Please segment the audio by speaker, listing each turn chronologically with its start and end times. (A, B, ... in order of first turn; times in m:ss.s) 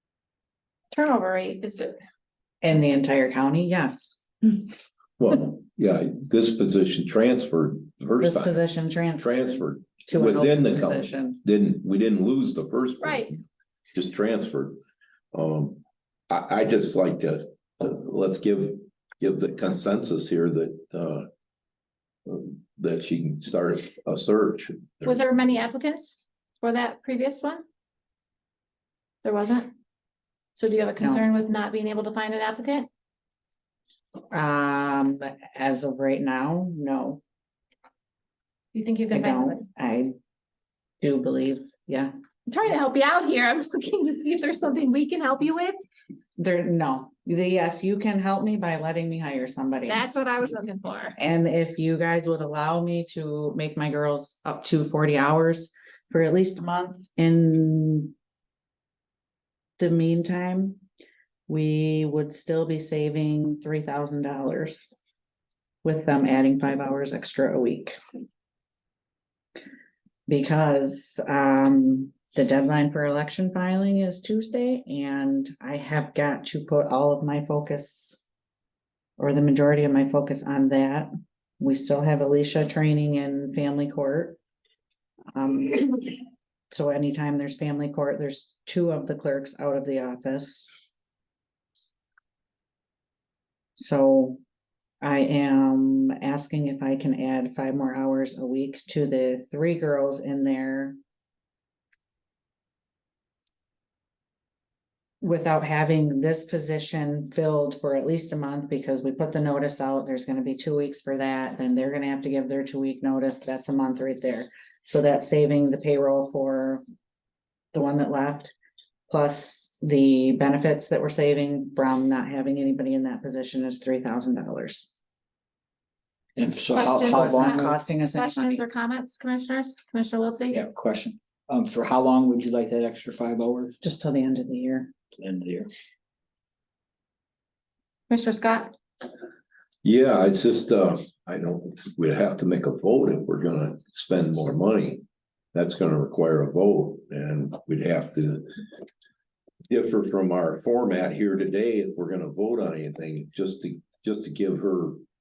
0:00.9-0:02.0 A
0:02.6-0:04.7 B
0:05.2-0:08.6 C
0:08.2-0:11.4 B
0:09.2-0:13.4 C
0:13.0-0:13.3 A
0:13.9-0:14.8 C
0:15.3-0:21.3 C
0:22.2-0:25.2 C
0:25.0-0:27.6 A
0:29.2-0:29.7 A
0:30.5-0:32.9 A
0:31.0-0:31.2 B
0:34.3-0:37.2 B
0:38.7-0:39.6 A
0:39.1-0:40.1 B
0:41.0-0:42.1 B
0:42.5-0:45.8 A
0:46.4-0:50.0 B
0:49.9-0:51.2 A
0:51.2-0:58.1 B
0:59.8-1:00.8 B
1:01.5-1:04.9 B
1:05.8-1:08.0 B
1:10.3-1:18.2 B
1:19.2-1:24.4 B
1:25.3-1:30.7 B
1:33.8-1:34.4 B
1:35.0-1:41.0 B
1:45.2-1:56.8 B
1:57.7-1:58.5 B
1:59.1-2:04.9 B
2:06.4-2:07.8 D
2:06.7-2:10.6 A
2:07.0-2:08.6 B
2:10.5-2:13.8 D
2:13.8-2:14.9 B
2:15.1-2:15.7 D
2:18.1-2:18.7 A
2:19.8-2:25.0 C
2:25.5-2:28.5 C
2:29.7-2:35.0 C